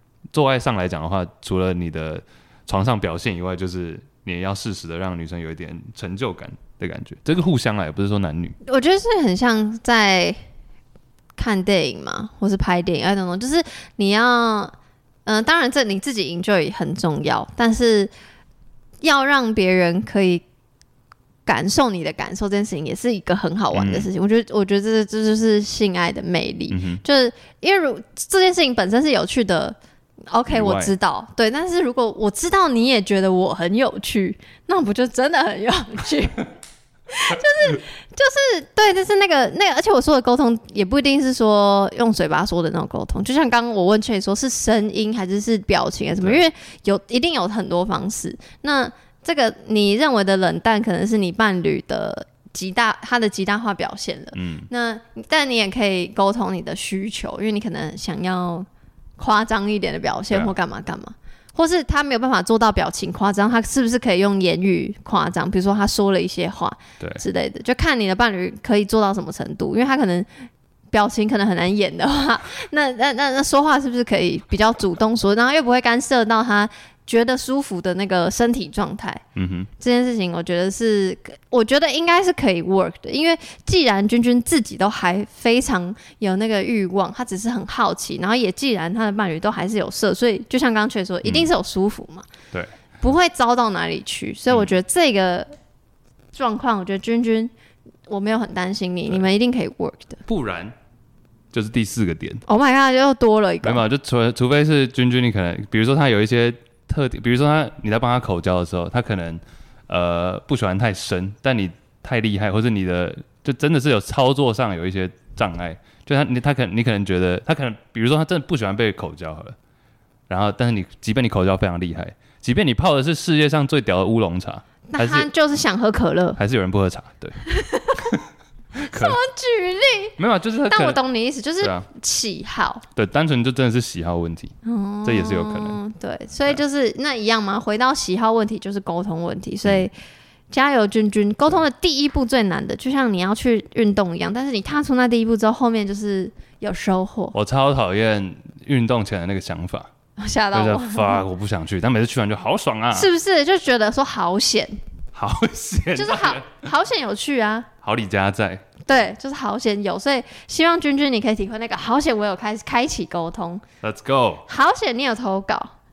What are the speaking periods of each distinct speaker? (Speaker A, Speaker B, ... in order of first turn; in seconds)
Speaker A: 0.3-8.6, 23.7-24.1, 26.7-27.0, 30.5-30.9, 54.4-54.7, 79.4-79.7, 91.2-91.5, 100.3-100.7, 101.5-102.4, 103.6-119.6, 120.3-125.3, 126.4-127.4, 128.8-129.2, 130.2-131.0, 131.6-131.9, 132.9-135.8, 147.3-149.9, 150.5-153.1, 155.2-156.7, 157.8-158.8, 163.8-164.4
Speaker B: 8.7-10.4, 11.4-14.7, 15.3-18.1, 19.0-20.4, 21.5-29.8, 30.3-36.5, 37.1-70.3, 70.9-79.2, 79.8-92.3, 93.0-95.5, 96.3-97.5, 98.1-100.2, 102.5-103.8, 124.9-126.4, 127.4-128.1, 128.9-132.8, 134.7-139.9, 140.5-147.3, 150.2-151.2, 152.9-154.8, 156.0-157.7, 158.8-163.6, 164.5-165.7